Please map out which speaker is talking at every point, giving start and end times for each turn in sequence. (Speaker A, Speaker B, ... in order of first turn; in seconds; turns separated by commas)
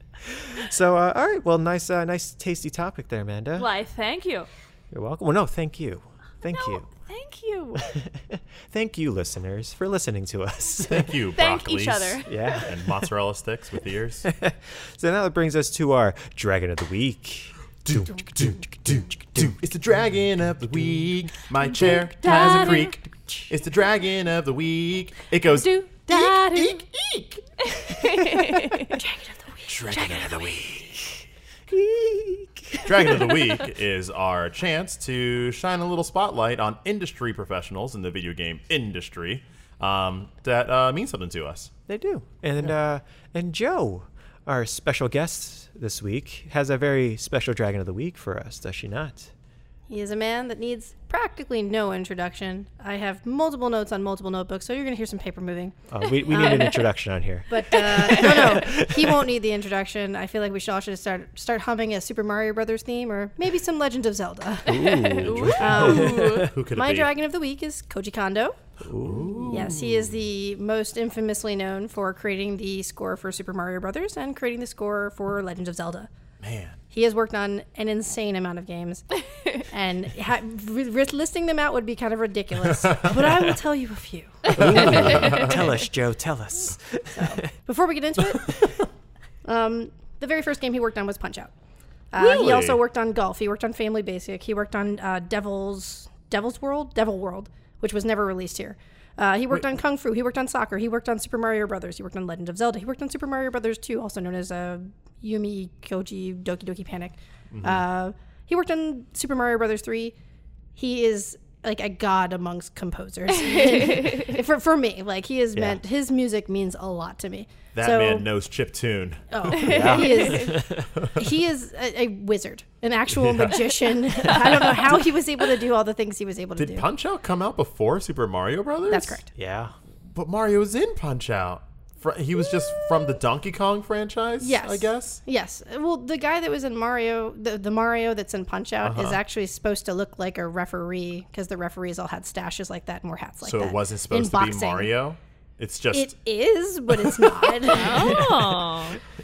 Speaker A: 0.2-3.7, Speaker B: 3.6-4.5, Speaker A: 4.9-6.9, Speaker B: 6.5-7.9, Speaker A: 7.8-11.2, Speaker C: 10.9-14.2, Speaker B: 11.3-12.6, Speaker A: 12.3-13.0, Speaker A: 14.2-19.5, Speaker C: 17.8-27.4, Speaker B: 22.2-22.9, Speaker D: 22.3-22.8, Speaker D: 25.5-26.8, Speaker B: 27.8-29.0, Speaker D: 28.1-30.3, Speaker C: 29.7-30.6, Speaker A: 29.9-33.3, Speaker C: 32.8-41.7, Speaker A: 41.9-49.3, Speaker D: 49.9-56.8, Speaker A: 55.9-59.2, Speaker B: 56.3-56.8, Speaker D: 57.5-68.6, Speaker B: 57.9-58.6, Speaker A: 64.7-66.5, Speaker B: 64.7-66.5, Speaker C: 65.2-67.1, Speaker A: 68.8-69.5, Speaker C: 69.0-70.1, Speaker D: 69.5-76.1, Speaker C: 76.4-76.8, Speaker D: 76.9-85.5, Speaker A: 84.5-87.5, Speaker C: 84.6-85.6, Speaker D: 87.1-88.7, Speaker D: 89.4-91.5, Speaker D: 92.1-110.1, Speaker C: 92.2-92.8, Speaker C: 107.5-107.8, Speaker D: 110.8-118.3, Speaker B: 113.4-114.3, Speaker C: 117.7-119.9, Speaker D: 119.3-126.8, Speaker A: 119.5-120.9, Speaker B: 119.6-120.5, Speaker C: 121.0-121.3, Speaker C: 123.1-124.0, Speaker C: 126.6-129.2, Speaker D: 128.9-129.3, Speaker A: 129.3-129.7, Speaker C: 130.1-135.2, Speaker D: 134.4-144.9, Speaker C: 138.8-139.2, Speaker C: 143.4-146.1, Speaker D: 145.9-148.7, Speaker C: 146.9-147.5, Speaker B: 147.7-149.0